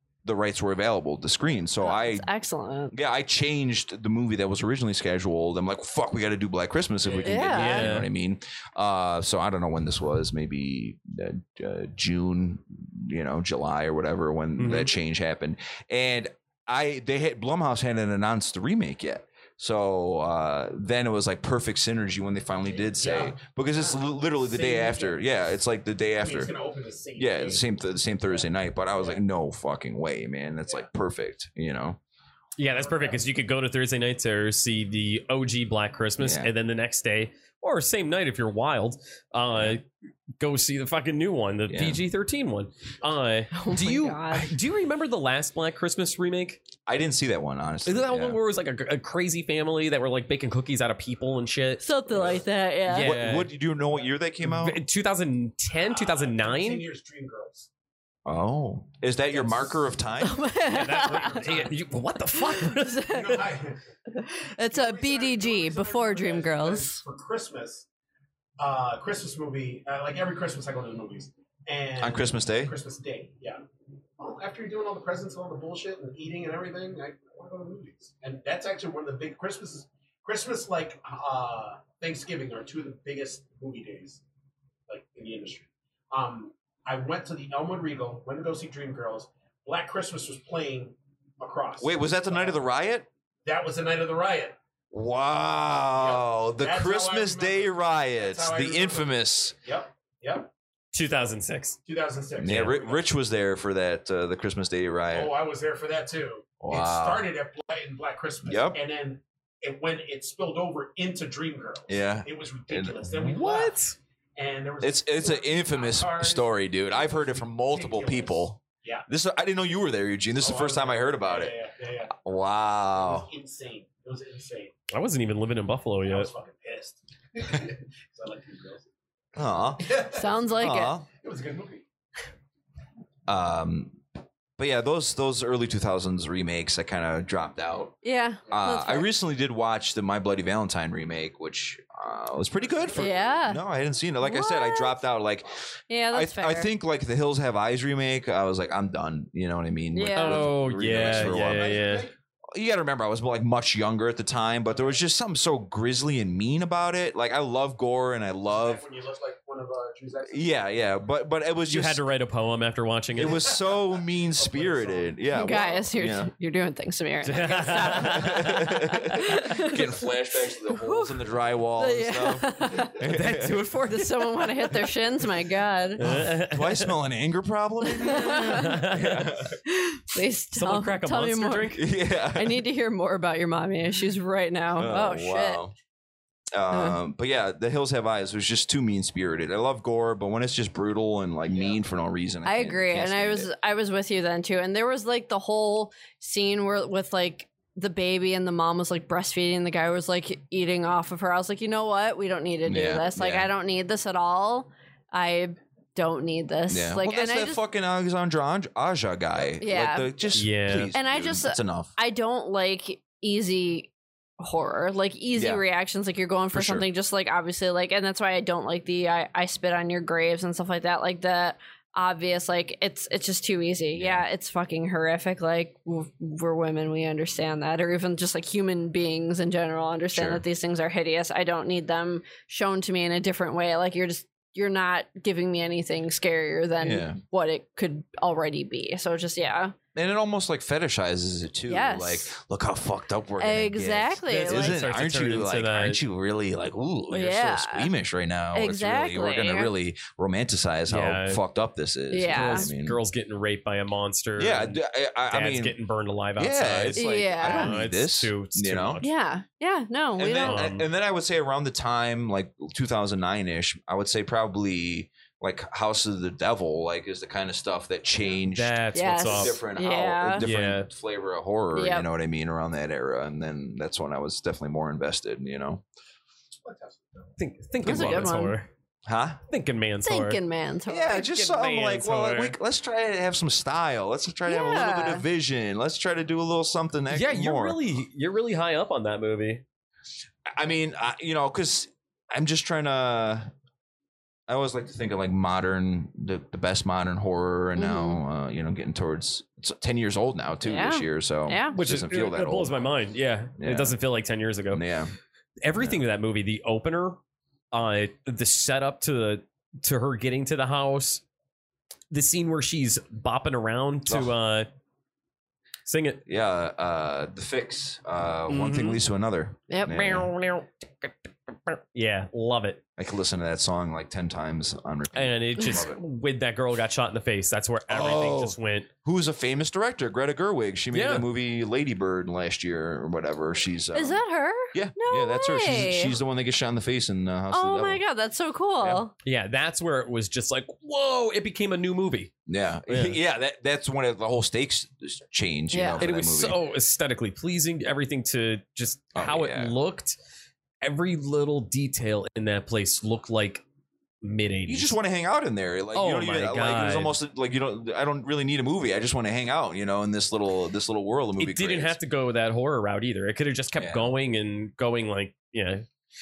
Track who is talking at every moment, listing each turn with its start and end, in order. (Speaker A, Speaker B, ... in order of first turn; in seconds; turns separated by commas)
Speaker A: 0.2-2.3, Speaker B: 1.8-2.9, Speaker A: 2.9-26.5, Speaker C: 7.0-7.4, Speaker B: 7.2-7.9, Speaker D: 7.5-8.1, Speaker D: 14.6-14.9, Speaker C: 22.6-25.2, Speaker C: 26.2-27.6, Speaker A: 27.2-32.0, Speaker C: 28.3-29.2, Speaker D: 32.6-39.9, Speaker C: 32.7-33.3, Speaker A: 36.2-36.5, Speaker D: 40.4-46.6, Speaker A: 41.7-42.0, Speaker B: 43.5-44.6, Speaker A: 46.9-48.4, Speaker D: 47.9-53.5, Speaker B: 51.8-53.2, Speaker A: 52.9-54.8, Speaker D: 54.4-56.8, Speaker C: 55.8-57.7, Speaker A: 58.3-60.4, Speaker C: 59.2-59.9, Speaker B: 60.2-61.5, Speaker D: 60.7-63.5, Speaker C: 60.8-61.8, Speaker B: 62.3-63.5, Speaker C: 63.1-63.8, Speaker B: 64.1-67.0, Speaker C: 64.7-67.9, Speaker C: 68.6-73.6, Speaker A: 72.0-72.7, Speaker C: 74.2-84.2, Speaker C: 84.9-92.6, Speaker A: 91.8-93.1, Speaker C: 93.5-94.5, Speaker A: 94.9-99.6, Speaker C: 96.0-99.1, Speaker C: 99.6-100.5, Speaker D: 100.9-101.8, Speaker C: 101.9-103.0, Speaker A: 102.4-105.3, Speaker D: 102.5-102.7, Speaker C: 105.1-113.8, Speaker A: 106.6-107.2, Speaker A: 108.5-108.8, Speaker A: 111.9-113.0, Speaker D: 113.0-114.0, Speaker C: 114.4-119.1, Speaker A: 114.8-121.5, Speaker C: 120.4-122.2, Speaker A: 122.2-123.3, Speaker C: 123.0-124.8, Speaker D: 124.9-126.3, Speaker C: 126.0-128.9, Speaker A: 129.3-130.0, Speaker C: 129.8-131.9, Speaker B: 130.1-130.9, Speaker A: 130.6-131.1, Speaker A: 133.3-134.0, Speaker A: 134.6-152.0, Speaker B: 138.0-139.1, Speaker C: 142.8-143.2, Speaker B: 142.9-143.6, Speaker B: 144.2-145.0, Speaker B: 145.9-146.7, Speaker B: 149.9-150.5, Speaker D: 150.1-152.1, Speaker C: 150.8-152.1, Speaker A: 152.5-158.8, Speaker C: 154.7-155.0, Speaker C: 158.5-160.5, Speaker A: 160.3-162.0, Speaker D: 161.7-163.5, Speaker A: 163.2-166.3, Speaker C: 163.2-165.8, Speaker B: 165.3-169.8, Speaker D: 167.2-168.7, Speaker A: 167.8-173.7, Speaker B: 170.7-171.2, Speaker B: 171.8-176.0, Speaker D: 173.0-174.9, Speaker D: 176.0-176.9, Speaker A: 176.0-179.6, Speaker B: 177.8-178.8, Speaker D: 178.3-179.2, Speaker B: 179.7-185.6, Speaker D: 180.5-181.8, Speaker A: 181.8-182.6, Speaker A: 184.8-185.7, Speaker A: 186.5-193.5, Speaker B: 186.7-187.0, Speaker C: 191.5-191.8, Speaker B: 192.4-207.6, Speaker A: 202.7-203.5, Speaker A: 206.7-211.9, Speaker B: 209.6-210.1, Speaker D: 210.3-210.9, Speaker B: 210.9-239.8, Speaker A: 215.3-215.6, Speaker A: 216.5-216.9, Speaker A: 223.9-224.2, Speaker A: 230.1-230.4, Speaker A: 236.8-237.2, Speaker A: 239.9-253.0, Speaker B: 241.7-242.4, Speaker B: 243.4-244.8, Speaker D: 244.3-246.0, Speaker B: 247.1-247.9, Speaker B: 248.5-249.7, Speaker D: 250.9-251.4, Speaker B: 252.1-252.7, Speaker D: 252.3-254.8, Speaker A: 254.4-255.8, Speaker D: 255.3-259.1, Speaker A: 256.4-259.0, Speaker B: 256.9-257.8, Speaker B: 259.0-260.7, Speaker A: 260.2-275.8, Speaker D: 260.4-260.9, Speaker D: 268.5-269.6, Speaker B: 268.9-270.5, Speaker D: 270.4-270.9, Speaker B: 271.7-272.1, Speaker C: 276.6-277.4, Speaker D: 277.4-278.7, Speaker B: 277.8-278.6, Speaker A: 277.9-278.3, Speaker A: 279.1-279.4, Speaker D: 279.5-280.4, Speaker B: 280.0-281.3, Speaker A: 280.9-287.8, Speaker D: 281.1-282.6, Speaker B: 284.5-285.2, Speaker D: 287.1-289.6, Speaker A: 290.5-293.5, Speaker A: 294.5-302.9, Speaker B: 297.8-298.2, Speaker B: 300.6-301.8, Speaker D: 301.7-304.8, Speaker A: 303.6-304.0, Speaker A: 304.7-305.1, Speaker D: 305.6-307.2, Speaker D: 307.7-311.2, Speaker D: 312.1-314.7, Speaker A: 314.1-314.3, Speaker D: 315.9-316.2, Speaker A: 316.3-320.3, Speaker D: 318.5-319.0, Speaker B: 319.7-320.0, Speaker D: 319.9-322.8, Speaker A: 323.0-326.0, Speaker D: 325.1-328.9, Speaker B: 325.6-325.8, Speaker A: 327.9-338.0, Speaker D: 330.9-331.3, Speaker B: 333.9-336.2, Speaker B: 337.5-339.1, Speaker D: 339.2-342.3, Speaker A: 342.5-346.6, Speaker D: 342.9-343.2, Speaker B: 345.7-346.0, Speaker D: 346.0-350.2, Speaker A: 349.1-349.7, Speaker D: 350.8-353.6, Speaker D: 354.2-354.9, Speaker A: 354.7-362.0, Speaker D: 355.9-357.2, Speaker D: 361.4-365.9, Speaker A: 363.8-364.1